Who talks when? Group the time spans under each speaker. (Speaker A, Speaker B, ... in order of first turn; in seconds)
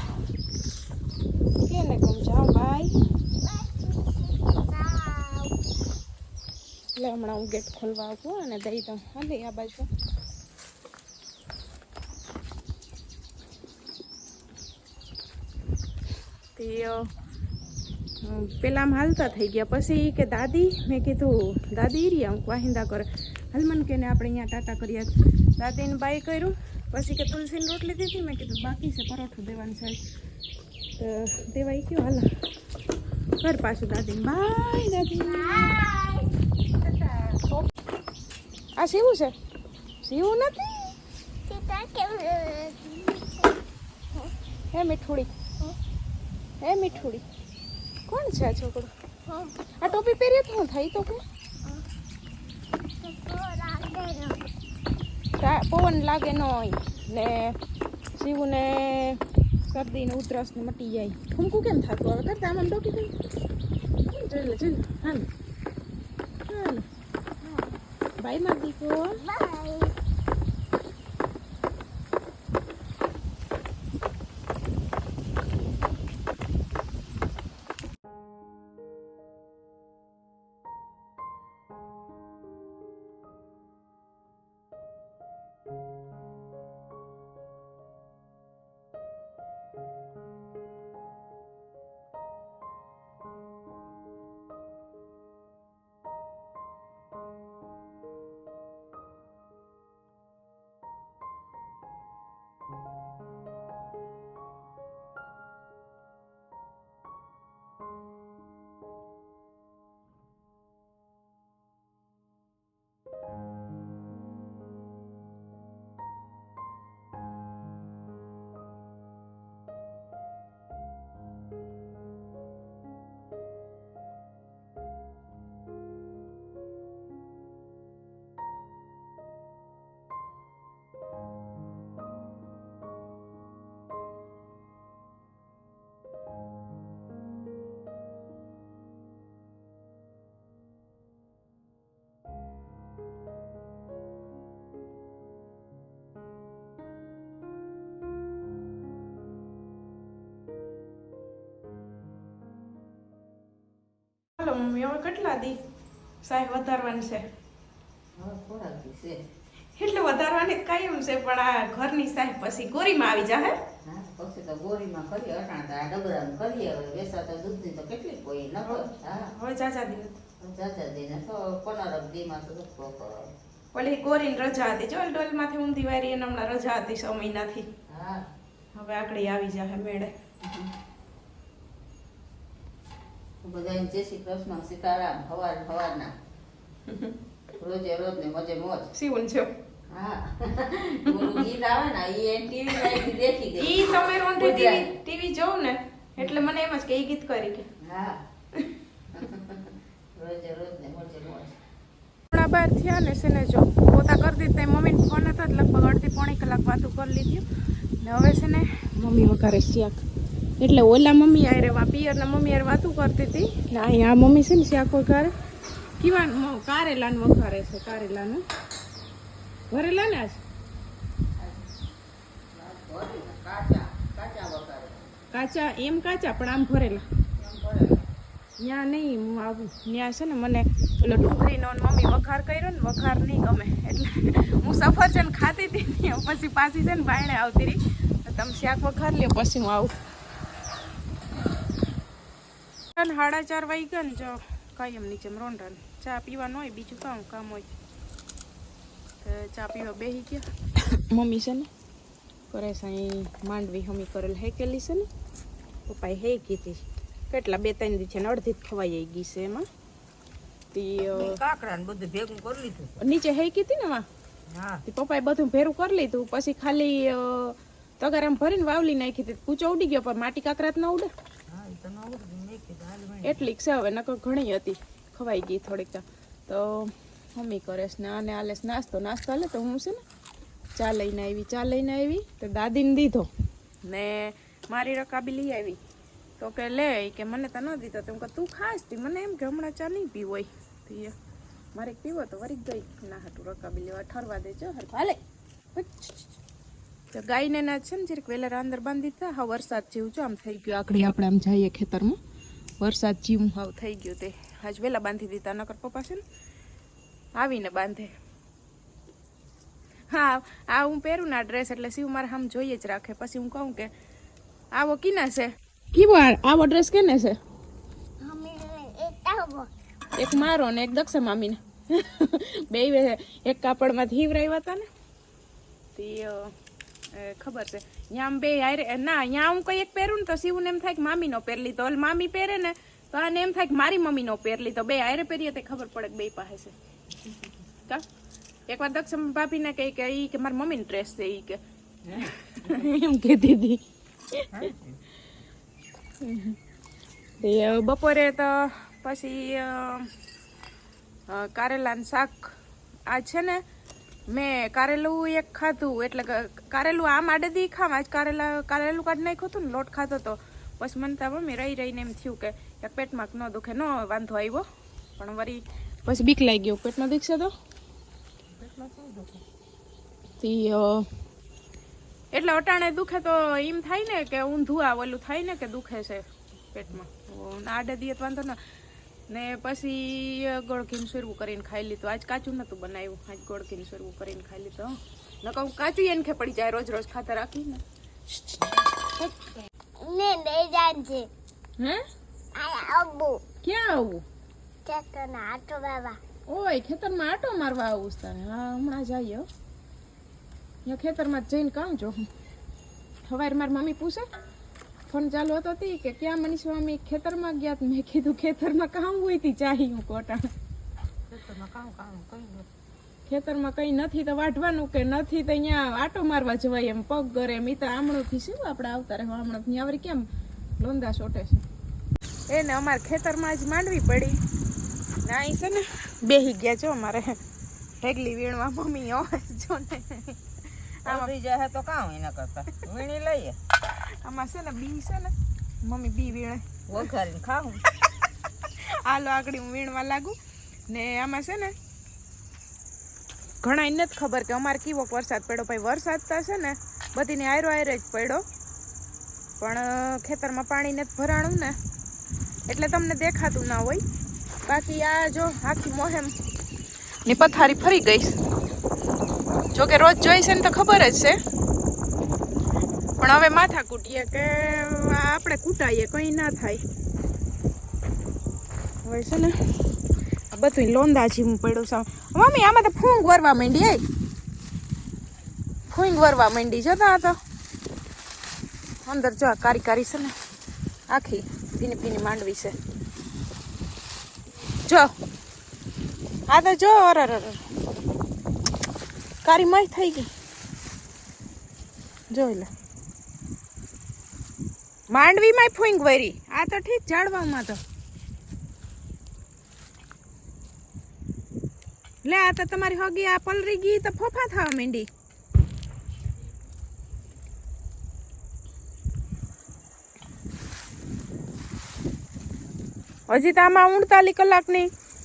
Speaker A: 1.6-2.9, 7.0-9.9, 16.6-17.1, 18.2-30.0, 31.0-32.3, 33.4-35.9, 37.3-37.7, 38.8-39.3, 40.0-41.0, 44.7-45.3, 46.6-47.2, 48.1-48.9, 49.8-51.2, 55.4-57.6, 58.2-63.1, 64.1-65.3, 66.5-66.9, 68.2-69.2, 154.4-155.6, 156.2-157.3, 159.8-163.6, 168.6-170.2, 173.7-177.7, 178.7-180.1, 186.9-187.1, 188.9-189.5, 191.1-191.4, 192.8-193.1, 193.6-197.7, 202.3-207.4, 208.0-210.0, 210.6-215.3, 216.0-218.4, 219.7-220.4, 225.3-227.1, 228.6-239.9, 242.9-247.7, 249.2-251.7, 252.5-255.1, 255.9-259.7, 260.7-261.4, 263.0-264.1, 264.9-271.1, 273.2-280.0, 280.8-283.3, 283.8-285.8, 286.4-291.1, 291.7-295.2, 295.7-296.3, 297.1-302.2, 302.8-306.2, 307.4-308.1, 310.1-313.9, 314.7-317.4, 320.2-324.9, 326.0-326.5, 327.1-336.8, 338.7-341.6, 342.1-344.7, 346.2-346.6, 347.4-350.1, 351.3-352.6, 353.1-353.6, 354.3-364.7, 365.2-367.5, 370.4-371.1, 372.3-378.6, 379.3-387.8, 393.6-394.2, 396.5-399.5, 400.9-402.2, 403.3-404.3, 405.1-410.5, 413.3-420.3, 420.8-421.6, 422.5-424.4, 425.2-427.4, 428.0-431.3, 434.2-435.3, 435.8-437.1, 438.7-440.4, 440.9-441.8, 443.6-448.4, 449.6-451.8, 452.7-454.0, 454.6-456.4, 457.2-458.4, 459.7-461.4, 463.2-466.8, 469.0-469.8, 470.5-474.0, 475.9-477.4, 479.1-480.4, 481.1-482.8, 484.8-485.1, 486.5-487.8, 489.4-490.3, 492.3-492.7, 495.1-497.8, 502.2-505.1, 513.3-514.9
Speaker B: 3.4-5.6, 35.2-36.3, 41.5-43.6, 49.3-49.5, 53.0-54.4, 67.4-67.8, 69.2-69.9, 318.2-319.7, 390.0-391.3, 392.6-393.4, 394.9-396.2
Speaker C: 158.1-159.2, 163.8-169.3, 170.4-173.3, 177.9-178.2, 180.4-180.7, 183.4-186.1, 187.6-188.9, 189.9-194.9, 197.8-198.2, 199.1-201.6, 221.4-221.7, 222.5-225.1, 227.4-228.1, 261.1-263.0, 264.5-264.8, 271.5-273.5, 342.1-342.9, 344.5-345.0, 368.5-369.4, 411.3-412.7, 431.1-433.6, 436.9-437.8